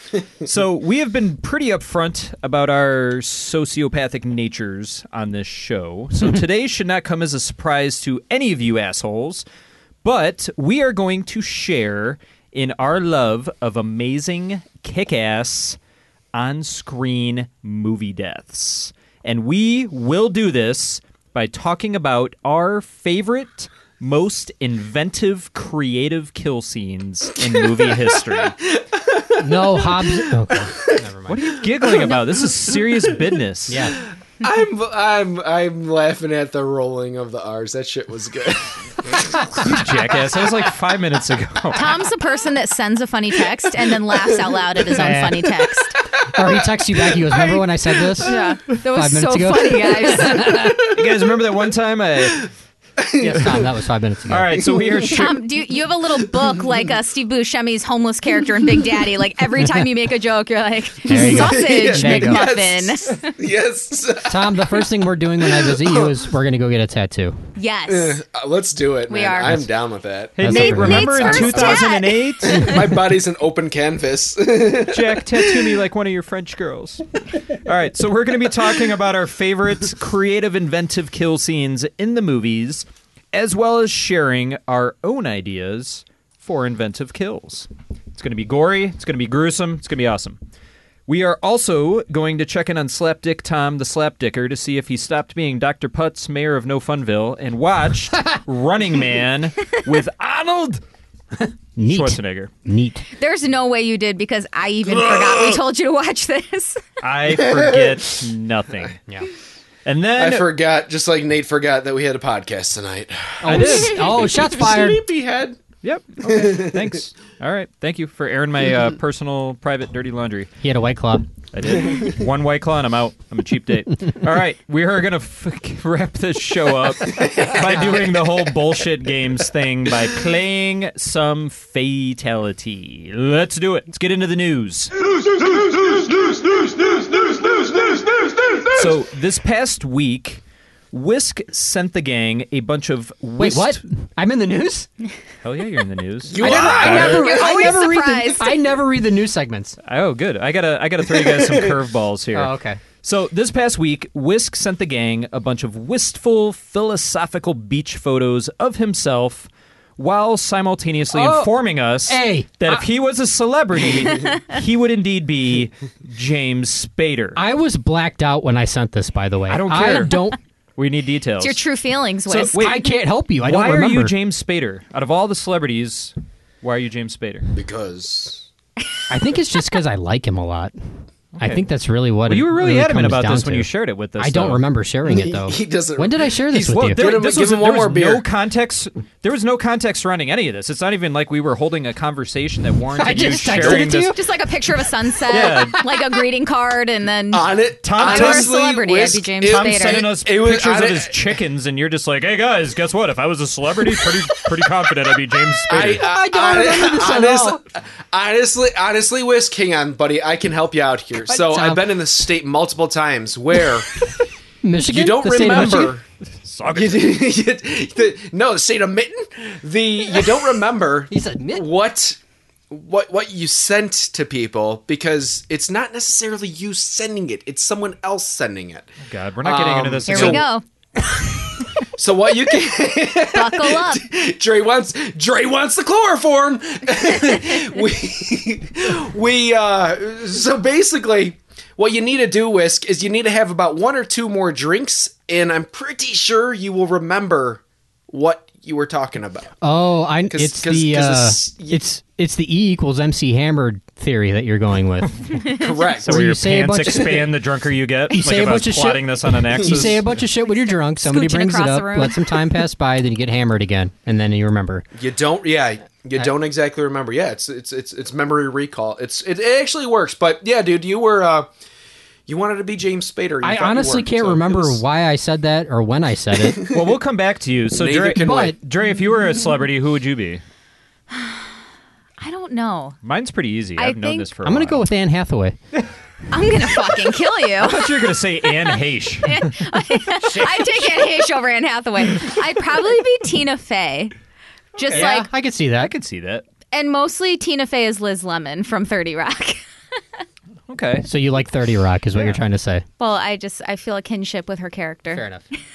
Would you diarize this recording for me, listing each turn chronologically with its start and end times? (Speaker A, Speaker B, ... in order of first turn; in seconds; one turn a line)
Speaker A: 0.4-9.5
Speaker A: 10.0-15.8
Speaker A: 16.3-28.6
Speaker B: 27.6-30.3
Speaker C: 29.4-31.5
Speaker A: 31.3-33.9
Speaker B: 31.7-32.5
Speaker C: 33.7-34.0
Speaker B: 34.4-39.8
Speaker A: 39.5-42.1
Speaker D: 41.7-46.0
Speaker C: 44.9-45.5
Speaker C: 46.3-48.3
Speaker B: 47.1-48.5
Speaker D: 48.2-50.6
Speaker C: 48.9-50.9
Speaker A: 50.8-52.4
Speaker B: 53.0-53.6
Speaker C: 53.2-54.6
Speaker A: 54.3-55.5
Speaker D: 55.1-63.3
Speaker C: 61.1-62.5
Speaker B: 61.1-64.8
Speaker C: 64.3-67.4
Speaker B: 65.6-66.1
Speaker D: 67.6-68.2
Speaker B: 67.9-75.7
Speaker D: 69.1-69.7
Speaker A: 70.4-72.8
Speaker C: 70.4-71.0
Speaker D: 70.5-72.7
Speaker A: 74.9-77.0
Speaker A: 77.6-90.4
Speaker A: 91.1-100.8
Speaker C: 101.8-103.0
Speaker A: 101.8-102.5
Speaker D: 103.1-106.8
Speaker B: 104.9-105.6
Speaker A: 107.0-109.0
Speaker B: 107.3-107.9
Speaker A: 109.8-110.5
Speaker B: 110.2-115.6
Speaker C: 113.4-115.0
Speaker A: 113.5-114.3
Speaker A: 115.8-120.5
Speaker B: 116.2-117.0
Speaker C: 120.6-121.3
Speaker A: 121.5-134.9
Speaker A: 138.7-143.8
Speaker C: 143.4-144.9
Speaker A: 145.4-147.4
Speaker B: 146.3-147.9
Speaker C: 146.4-149.8
Speaker D: 146.4-148.6
Speaker A: 149.8-167.4
Speaker B: 151.2-151.5
Speaker C: 152.3-152.8
Speaker C: 161.1-161.5
Speaker C: 162.1-162.8
Speaker C: 167.4-170.4
Speaker A: 169.5-170.1
Speaker A: 170.8-171.6
Speaker D: 171.4-172.6
Speaker A: 172.3-172.8
Speaker C: 172.6-174.2
Speaker A: 173.4-177.5
Speaker B: 177.5-178.4
Speaker C: 179.1-180.7
Speaker A: 181.3-181.7
Speaker C: 181.4-187.1
Speaker A: 182.3-184.6
Speaker B: 185.1-186.3
Speaker A: 186.5-194.2
Speaker B: 186.9-188.2
Speaker C: 193.0-194.2
Speaker D: 193.5-200.1
Speaker A: 195.3-195.8
Speaker C: 195.5-195.9
Speaker B: 197.3-201.2
Speaker A: 197.8-198.6
Speaker A: 199.4-206.1
Speaker B: 205.7-214.0
Speaker C: 206.0-207.6
Speaker C: 211.3-211.9
Speaker C: 214.6-215.9
Speaker B: 214.9-216.1
Speaker A: 216.4-217.2
Speaker B: 216.7-222.2
Speaker C: 221.1-221.7
Speaker B: 222.7-228.9
Speaker A: 229.0-230.5
Speaker B: 229.4-230.5
Speaker D: 230.1-230.6
Speaker B: 232.0-249.6
Speaker D: 233.3-234.0
Speaker C: 249.6-255.2
Speaker B: 250.3-251.8
Speaker A: 255.0-255.4
Speaker B: 255.5-256.1
Speaker A: 256.0-260.2
Speaker C: 256.1-257.3
Speaker C: 258.1-264.9
Speaker D: 260.5-262.4
Speaker B: 265.0-271.5
Speaker B: 272.3-274.8
Speaker C: 273.4-276.7
Speaker B: 276.6-276.9
Speaker A: 276.7-280.4
Speaker B: 277.7-278.6
Speaker C: 278.2-278.6
Speaker D: 281.1-281.4
Speaker D: 282.2-283.0
Speaker A: 283.0-284.8
Speaker D: 283.8-284.3
Speaker C: 284.4-285.6
Speaker D: 286.3-287.9
Speaker A: 287.6-290.6
Speaker D: 289.2-294.1
Speaker D: 294.8-295.3
Speaker A: 294.9-296.4
Speaker C: 294.9-295.9
Speaker D: 296.7-299.6
Speaker A: 300.7-301.1
Speaker C: 301.1-302.9
Speaker D: 303.0-305.2
Speaker C: 305.1-305.5